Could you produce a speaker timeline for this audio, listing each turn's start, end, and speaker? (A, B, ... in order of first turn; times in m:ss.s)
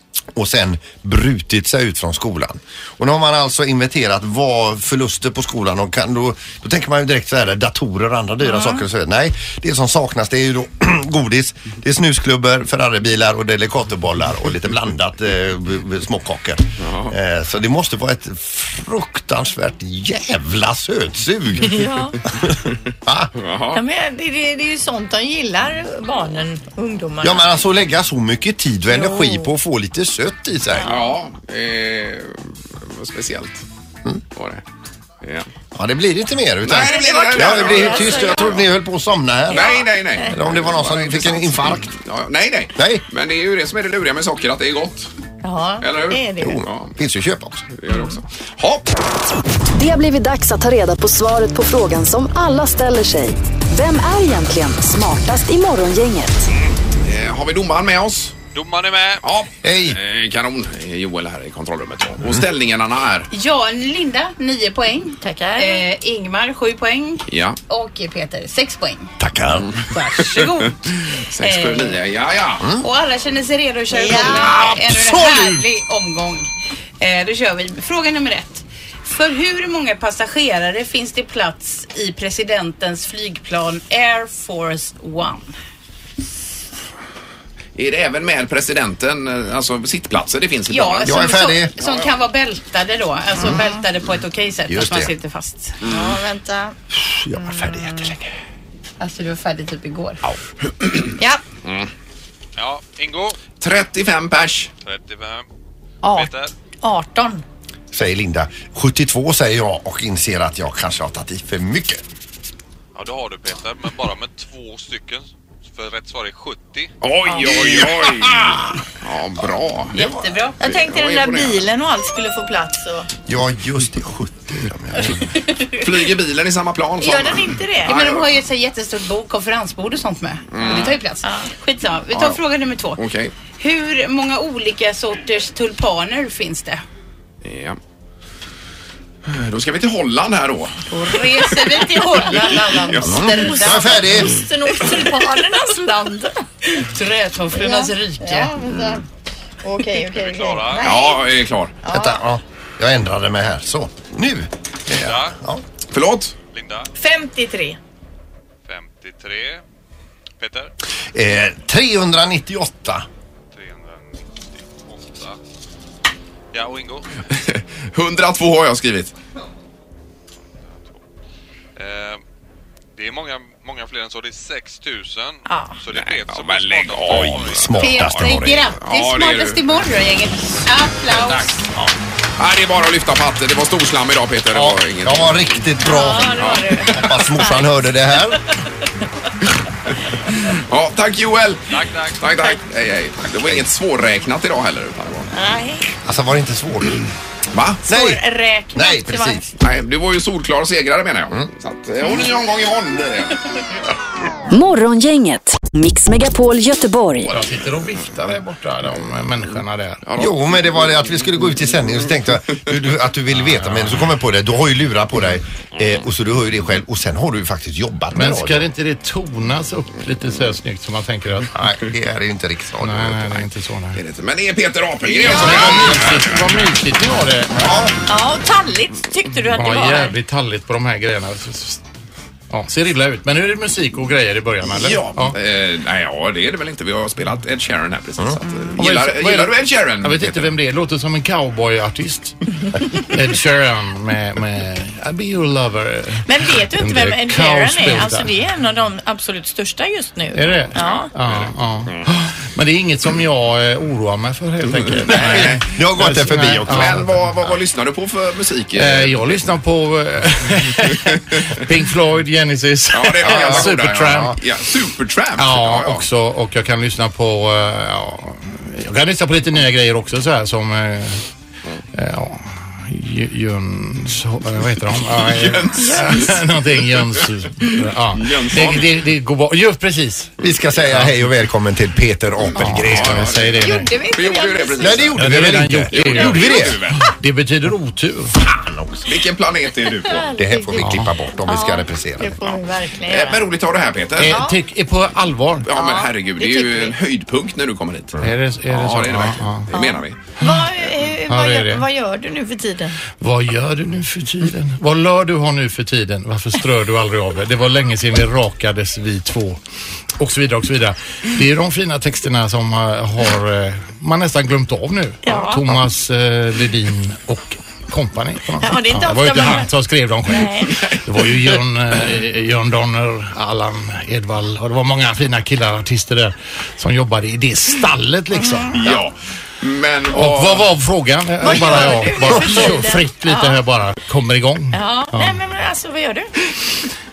0:00.3-0:23.3 A
0:08.4-0:08.8 B
0:16.8-0:17.2 C
0:21.6-0:22.2 B
0:23.4-0:23.8 C
0:23.7-0:27.5 B
0:27.2-0:30.9 A
0:28.9-0:29.5 B
0:30.7-0:31.1 B
0:30.8-0:33.6 C
0:34.3-0:34.6 C
0:35.2-0:35.5 C
0:35.7-0:41.9 A
0:36.6-0:38.6 C
0:36.7-0:38.6 B
0:39.5-0:40.3 B
0:39.5-0:45.1 C
0:42.7-0:43.0 A
0:45.4-0:46.6 B
0:45.8-0:46.9 C
0:46.4-0:47.7 A
0:47.7-0:48.8 C
0:49.7-0:56.4 D
0:56.6-0:58.4 C
0:58.5-0:59.2 E
0:59.2-1:03.3 C
0:59.6-1:00.0 A
1:03.3-1:09.1 F
1:05.2-1:05.9 B
1:07.3-1:07.6 C
1:09.2-1:09.8 A
1:09.5-1:12.7 C
1:09.9-1:12.0 F
1:12.8-1:16.5 F
1:13.9-1:14.6 B
1:14.1-1:15.6 A
1:17.0-1:25.6 F
1:27.7-1:32.1 C
1:30.7-1:35.8 F
1:31.0-1:31.7 A
1:33.4-1:33.8 B
1:34.7-1:35.1 A
1:35.8-1:36.8 B
1:36.9-1:38.3 A
1:37.3-1:38.1 B
1:39.0-1:40.2 B
1:40.8-1:41.1 C
1:41.6-1:41.9 C
1:42.6-1:43.4 E
1:43.6-1:44.7 C
1:44.8-1:45.5 E
1:46.0-1:47.4 B
1:46.1-1:46.5 E
1:47.9-1:52.0 A
1:52.9-1:56.9 E
1:57.0-2:01.7 C
1:57.2-1:57.6 B
1:57.4-1:58.7 A
1:59.9-2:00.6 F
2:00.6-2:03.1 B
2:03.2-2:05.3 A
2:05.7-2:08.2 C
2:07.0-2:08.0 B
2:07.9-2:13.0 F
2:10.5-2:11.0 C
2:10.7-2:11.5 B
2:12.1-2:12.4 C
2:13.0-2:13.3 C
2:13.6-2:16.8 F
2:17.4-2:17.8 C
2:19.2-2:23.8 C
2:20.9-2:24.1 F
2:21.8-2:26.3 B
2:23.1-2:24.4 A
2:26.6-2:28.5 F
2:27.5-2:29.0 B
2:28.7-2:29.0 C
2:29.6-2:31.3 B
2:30.0-2:30.8 E
2:30.8-2:31.7 C
2:31.8-2:32.2 B
2:31.9-2:34.5 A
2:34.9-2:35.2 C
2:35.0-2:35.4 E
2:35.0-2:35.6 A
2:35.9-2:36.4 C
2:36.5-2:36.9 E
2:37.0-2:37.8 B
2:38.7-2:39.6 E
2:40.4-2:40.7 E
2:41.1-2:43.0 A
2:43.5-2:45.4 E
2:46.5-2:47.1 E
2:47.3-2:49.1 C
2:51.8-2:52.2 E
2:52.9-2:57.8 E
2:55.9-2:59.6 C
2:57.1-2:58.6 A
2:57.7-3:01.6 F
3:01.2-3:01.5 C
3:02.4-3:05.6 C
3:04.5-3:08.4 A
3:05.8-3:07.9 B
3:06.2-3:07.2 C
3:10.4-3:15.3 C
3:11.7-3:12.2 E
3:15.3-3:15.9 B
3:16.0-3:17.0 A
3:17.5-3:17.8 C
3:17.9-3:18.2 A
3:17.9-3:19.5 B
3:18.7-3:19.4 A
3:19.6-3:23.4 C
3:24.5-3:27.4 D
3:27.2-3:30.0 G
3:30.0-3:30.4 C
3:30.2-3:38.7 A
3:33.3-3:34.0 G
3:38.1-3:41.5 G
3:41.5-3:43.5 A
3:42.8-3:44.0 G
3:44.0-3:46.7 C
3:45.0-3:45.6 B
3:45.3-3:47.7 G
3:48.0-3:50.1 B
3:49.5-3:51.8 G
3:52.5-3:55.4 G
3:54.7-4:00.5 C
3:58.8-4:02.4 G
4:02.9-4:08.3 G
4:06.2-4:11.1 B
4:10.3-4:17.2 G
4:10.7-4:12.0 C
4:15.0-4:15.7 C
4:15.1-4:17.1 A
4:16.6-4:19.4 C
4:18.8-4:24.4 G
4:22.9-4:26.0 C
4:25.4-4:31.2 G
4:31.9-4:40.4 G
4:35.2-4:36.4 C
4:35.8-4:36.1 B
4:38.1-4:38.9 C
4:40.4-4:43.3 A
4:42.5-4:43.9 G
4:42.6-4:47.1 C
4:43.6-4:45.1 B
4:44.8-4:46.8 A
4:45.2-4:48.3 G
4:48.4-4:49.1 A
4:49.0-4:50.3 C
4:50.0-4:53.5 B
4:50.3-4:52.6 A
4:50.8-4:51.1 G
4:53.1-4:54.4 C
4:54.2-4:55.7 G
4:54.2-4:54.6 B
4:55.6-5:00.2 C
4:55.7-4:57.0 B
4:58.2-4:59.7 G
4:59.7-5:03.0 B
5:01.3-5:01.8 G
5:03.2-5:09.6 G
5:10.2-5:28.8 G
5:15.2-5:15.6 B
5:18.6-5:19.7 B
5:20.3-5:20.9 B
5:28.4-5:28.9 B
5:28.7-5:30.7 C
5:30.1-5:35.4 G
5:31.4-5:33.6 B
5:34.7-5:36.5 B